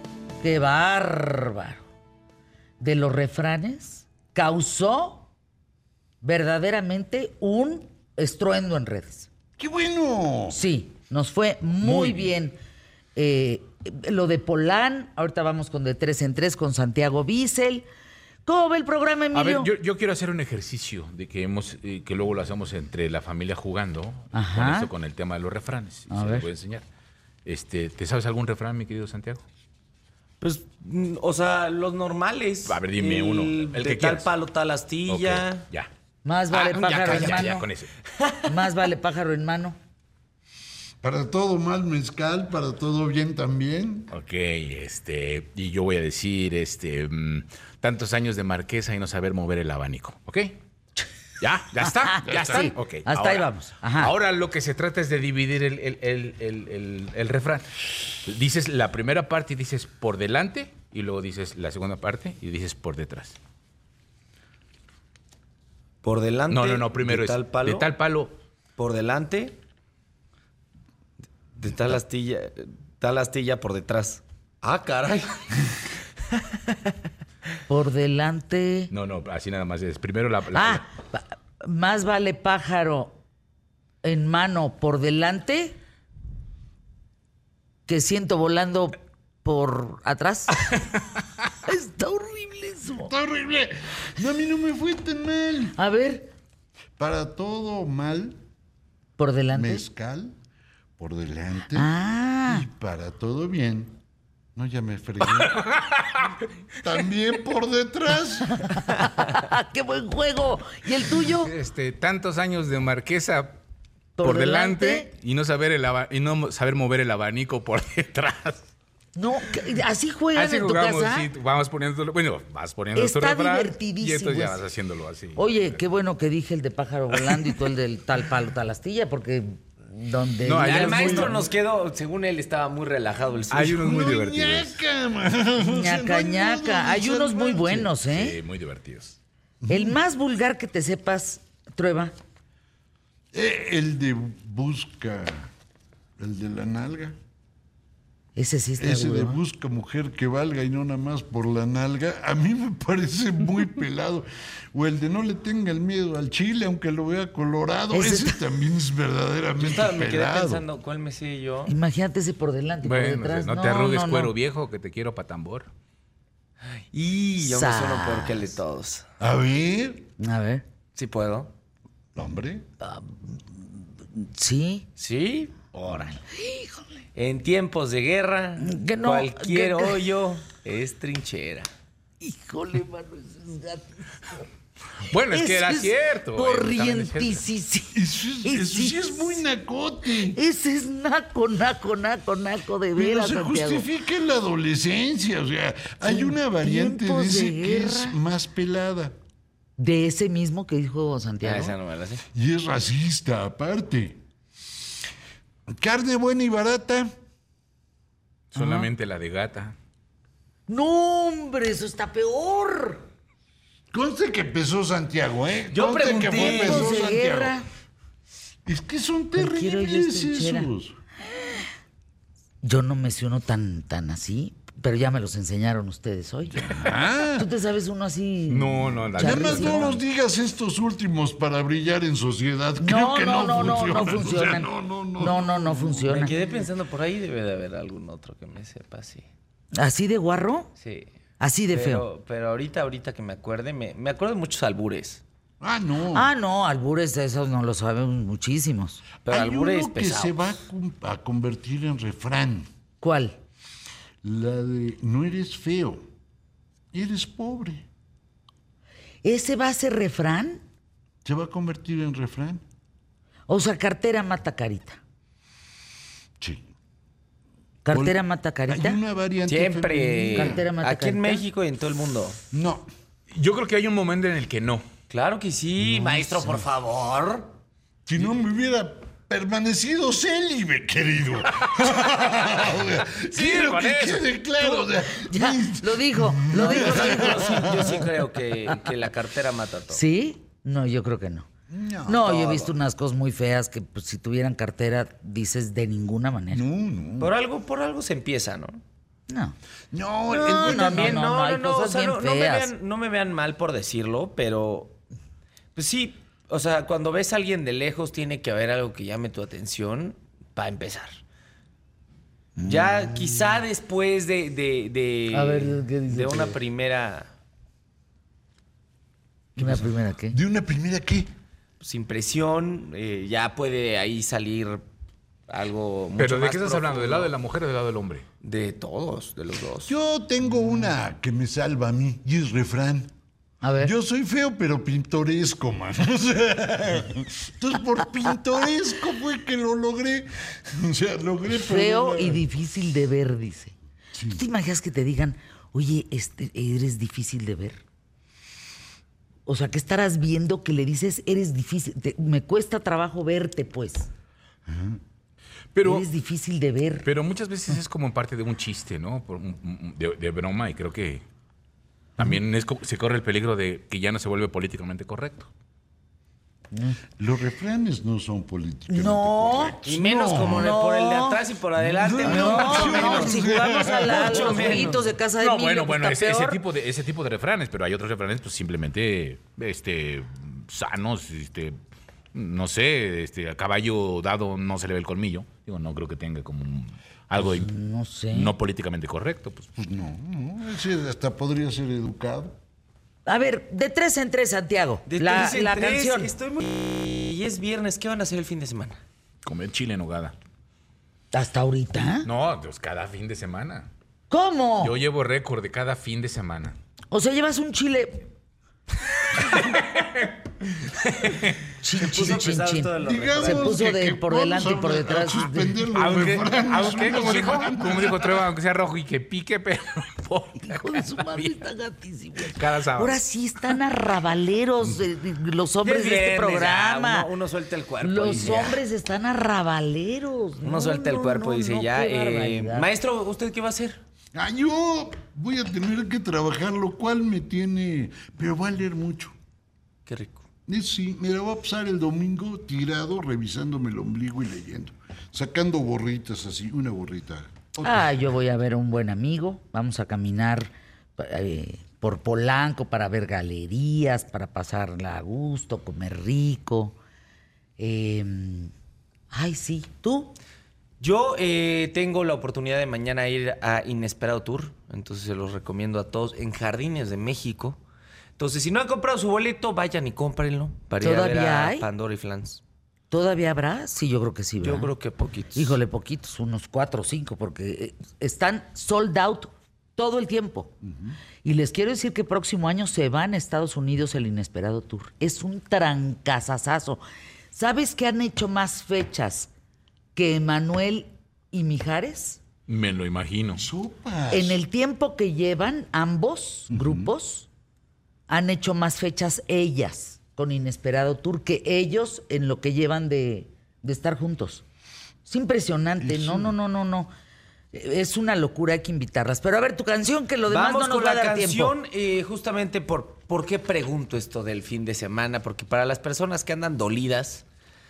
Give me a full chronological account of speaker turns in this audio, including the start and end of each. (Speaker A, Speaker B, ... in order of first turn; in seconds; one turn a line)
Speaker A: 0.4-1.9
Speaker A: 2.8-5.3
Speaker A: 6.2-9.3
Speaker B: 9.6-10.6
Speaker A: 10.5-12.6
Speaker C: 11.8-12.3
Speaker A: 13.2-17.9
Speaker A: 18.4-19.7
Speaker C: 19.3-26.9
Speaker A: 24.3-24.9
Speaker A: 26.1-26.5
Speaker C: 27.4-29.4
Speaker D: 30.4-35.6
Speaker C: 32.6-34.3
Speaker C: 35.1-35.9
Speaker A: 36.2-37.7
Speaker C: 36.5-37.9
Speaker D: 36.7-38.4
Speaker A: 38.5-39.8
Speaker B: 41.0-44.1
Speaker C: 44.1-50.6
Speaker C: 51.4-63.4
Speaker A: 52.0-54.1
Speaker B: 52.3-52.7
Speaker D: 66.0-67.9
Speaker C: 66.5-68.3
Speaker D: 68.8-69.6
Speaker D: 71.6-75.6
Speaker A: 77.7-78.9
Speaker C: 78.9-80.8
Speaker A: 80.5-83.2
Speaker A: 84.0-85.8
Speaker A: 87.9-90.7
Speaker A: 91.6-93.1
Speaker B: 93.0-95.8
Speaker A: 95.8-96.3
Speaker B: 97.0-98.4
Speaker A: 99.2-99.8
Speaker B: 99.5-100.3
Speaker B: 101.0-101.9
Speaker A: 101.7-102.7
Speaker B: 102.5-104.0
Speaker B: 104.6-105.6
Speaker C: 105.3-106.3
Speaker B: 106.8-108.7
Speaker A: 108.6-111.5
Speaker C: 111.3-113.6
Speaker A: 114.2-115.1
Speaker C: 114.2-118.7
Speaker A: 119.2-121.3
Speaker C: 120.3-125.6
Speaker A: 123.0-124.6
Speaker A: 125.4-131.4
Speaker C: 130.4-131.4
Speaker D: 130.6-133.8
Speaker C: 133.5-134.8
Speaker B: 133.7-137.9
Speaker A: 135.6-138.4
Speaker C: 138.1-139.2
Speaker B: 139.6-140.0
Speaker A: 139.7-142.1
Speaker B: 143.3-145.5
Speaker B: 146.2-147.2
Speaker A: 148.4-149.4
Speaker B: 148.8-160.6
Speaker A: 157.9-158.4
Speaker D: 159.6-161.7
Speaker A: 161.7-164.3
Speaker C: 162.8-165.7
Speaker D: 166.6-169.1
Speaker A: 167.4-168.5
Speaker B: 169.2-170.1
Speaker A: 170.2-170.6
Speaker D: 170.9-171.5
Speaker B: 172.2-172.7
Speaker A: 172.8-173.4
Speaker A: 174.0-174.9
Speaker D: 175.0-175.6
Speaker C: 175.8-176.2
Speaker A: 175.9-176.9
Speaker D: 177.2-181.7
Speaker A: 178.6-180.0
Speaker A: 182.2-184.5
Speaker C: 185.1-187.4
Speaker A: 185.3-189.4
Speaker B: 187.9-190.4
Speaker A: 190.3-193.9
Speaker B: 193.0-199.2
Speaker A: 196.1-198.2
Speaker A: 199.8-201.8
Speaker D: 201.4-202.2
Speaker B: 202.3-204.2
Speaker B: 205.7-207.1
Speaker C: 208.5-209.8
Speaker A: 208.6-208.9
Speaker A: 210.7-213.0
Speaker B: 213.9-217.6
Speaker D: 215.7-217.1
Speaker A: 216.2-217.7
Speaker B: 218.7-221.0
Speaker A: 219.3-220.7
Speaker A: 222.6-230.0
Speaker B: 226.5-227.5
Speaker C: 228.5-230.0
Speaker B: 229.2-236.3
Speaker A: 232.8-236.3
Speaker D: 236.1-239.3
Speaker A: 239.8-240.7
Speaker D: 240.8-241.1
Speaker A: 241.4-242.1
Speaker D: 241.7-245.2
Speaker B: 245.6-246.3
Speaker A: 246.1-249.0
Speaker D: 249.3-250.5
Speaker B: 249.3-252.7
Speaker A: 253.0-253.4
Speaker B: 254.2-256.0
Speaker B: 256.9-257.9
Speaker A: 259.2-260.6
Speaker B: 261.2-262.6
Speaker A: 263.5-265.0
Speaker B: 266.4-266.7
Speaker A: 267.8-269.0
Speaker B: 267.9-270.7
Speaker D: 269.5-272.4
Speaker A: 270.3-271.5
Speaker B: 272.5-272.9
Speaker C: 273.3-274.9
Speaker D: 275.1-277.5
Speaker B: 275.8-276.6
Speaker B: 278.1-287.9
Speaker C: 283.3-284.3
Speaker A: 284.6-287.8
Speaker D: 286.5-290.0
Speaker A: 289.9-291.5
Speaker B: 291.7-292.3
Speaker A: 292.1-296.6
Speaker D: 292.2-292.8
Speaker B: 296.5-297.3
Speaker D: 297.2-298.8
Speaker A: 299.3-299.6
Speaker B: 299.9-301.3
Speaker A: 300.3-302.7
Speaker D: 300.4-305.0
Speaker D: 305.8-311.2
Speaker A: 312.6-313.0
Speaker D: 312.6-317.3
Speaker A: 315.3-316.6
Speaker A: 319.6-320.4
Speaker B: 319.6-321.3
Speaker D: 321.8-324.8
Speaker D: 325.5-327.3
Speaker C: 326.2-328.2
Speaker D: 328.4-329.9
Speaker B: 329.9-333.1
Speaker A: 333.6-333.9
Speaker B: 333.8-342.4
Speaker A: 341.5-343.8
Speaker B: 344.1-344.4
Speaker A: 344.3-347.8
Speaker A: 349.5-354.1
Speaker B: 354.7-355.0
Speaker C: 355.7-356.1
Speaker A: 355.8-357.1
Speaker C: 357.0-361.2
Speaker C: 362.2-365.5
Speaker A: 366.7-367.0
Speaker B: 367.2-370.7
Speaker A: 368.9-371.4
Speaker D: 369.9-373.4
Speaker B: 372.0-375.0
Speaker A: 372.2-376.6
Speaker D: 374.0-375.1
Speaker C: 375.2-381.8
Speaker C: 382.3-387.7
Speaker A: 387.4-388.5
Speaker C: 388.3-389.7
Speaker B: 389.8-392.6
Speaker A: 393.3-396.3
Speaker D: 395.1-399.0
Speaker C: 399.4-400.4
Speaker A: 401.3-402.3
Speaker C: 402.2-403.9
Speaker A: 404.3-405.0
Speaker C: 404.8-406.8
Speaker A: 407.1-408.3
Speaker C: 409.5-411.6
Speaker A: 411.8-415.9
Speaker D: 411.9-413.8
Speaker B: 413.0-418.5
Speaker C: 415.9-421.6
Speaker A: 420.6-427.3
Speaker C: 422.4-423.8
Speaker D: 425.8-428.8
Speaker A: 428.0-432.9
Speaker D: 430.6-434.0
Speaker B: 434.3-439.3
Speaker D: 440.1-440.4
Speaker B: 440.7-448.2
Speaker A: 447.8-457.0
Speaker A: 457.8-458.7
Speaker A: 459.3-460.4
Speaker D: 461.0-467.8
Speaker D: 468.4-472.6
Speaker A: 471.0-471.9
Speaker A: 473.1-474.9
Speaker D: 474.6-475.8
Speaker A: 475.6-480.7
Speaker A: 481.4-489.5
Speaker A: 490.1-492.4
Speaker C: 492.7-493.6
Speaker B: 493.5-494.6
Speaker A: 494.3-497.5
Speaker B: 496.7-497.1
Speaker A: 498.3-504.6
Speaker A: 505.2-507.1
Speaker B: 506.0-506.6
Speaker A: 507.7-511.8
Speaker D: 510.5-517.5